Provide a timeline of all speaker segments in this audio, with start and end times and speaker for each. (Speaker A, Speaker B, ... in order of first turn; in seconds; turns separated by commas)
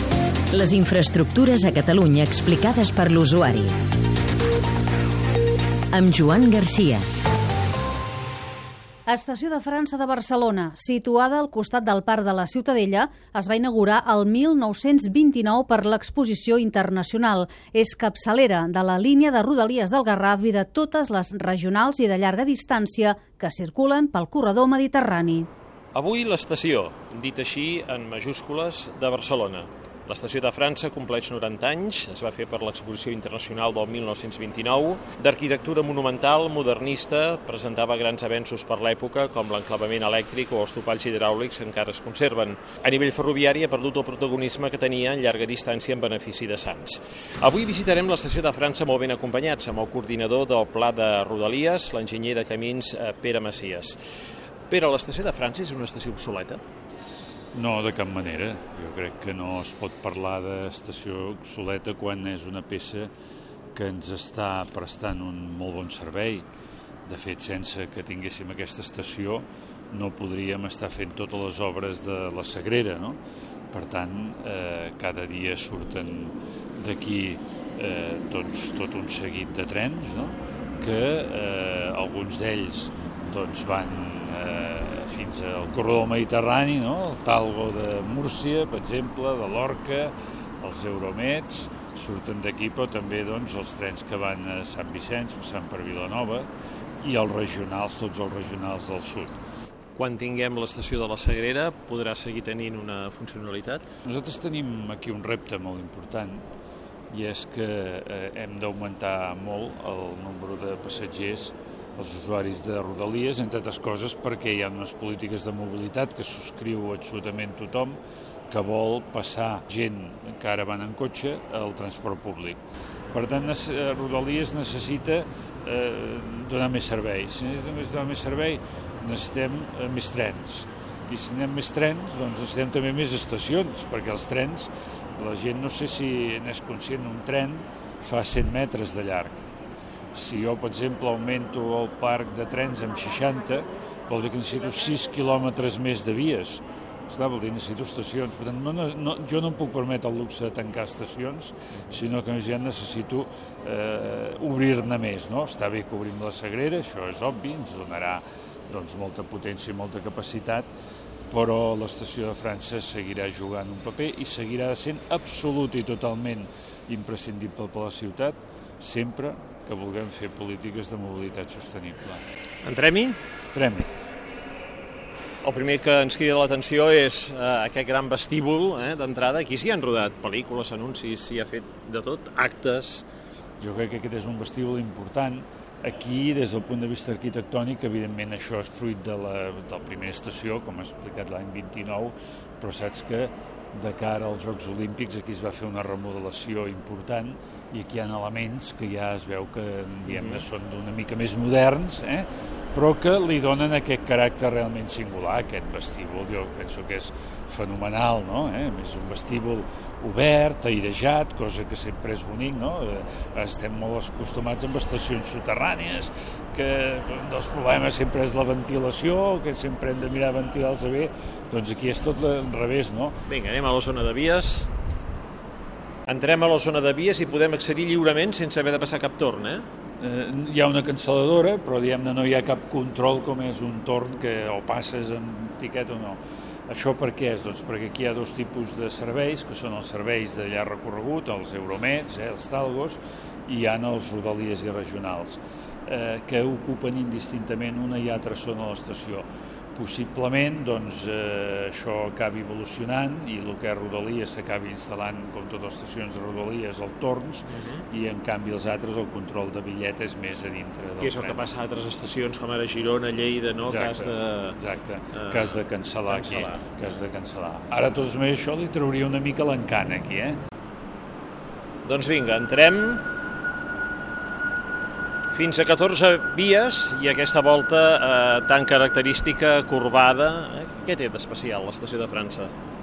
Speaker A: 0.5-3.8, Speaker A: 5.9-7.1, Speaker B: 9.1-25.5, Speaker C: 25.9-54.1, Speaker C: 54.7-56.6, Speaker D: 57.5-63.1, Speaker D: 63.7-66.5, Speaker D: 67.0-73.2, Speaker D: 73.7-96.5, Speaker D: 97.0-99.4, Speaker C: 100.0-103.9, Speaker D: 104.0-106.5, Speaker D: 107.1-139.3, Speaker D: 140.1-160.7, Speaker D: 161.3-172.2, Speaker C: 172.6-173.2, Speaker D: 173.5-173.9, Speaker C: 175.4-183.0, Speaker D: 183.6-223.2, Speaker C: 200.1-200.4, Speaker C: 223.3-224.7, Speaker C: 226.1-229.7, Speaker D: 230.0-261.5, Speaker C: 257.5-257.8, Speaker C: 261.0-264.6, Speaker D: 263.6-270.4, Speaker C: 265.1-266.6, Speaker C: 271.8-273.0, Speaker C: 275.3-282.5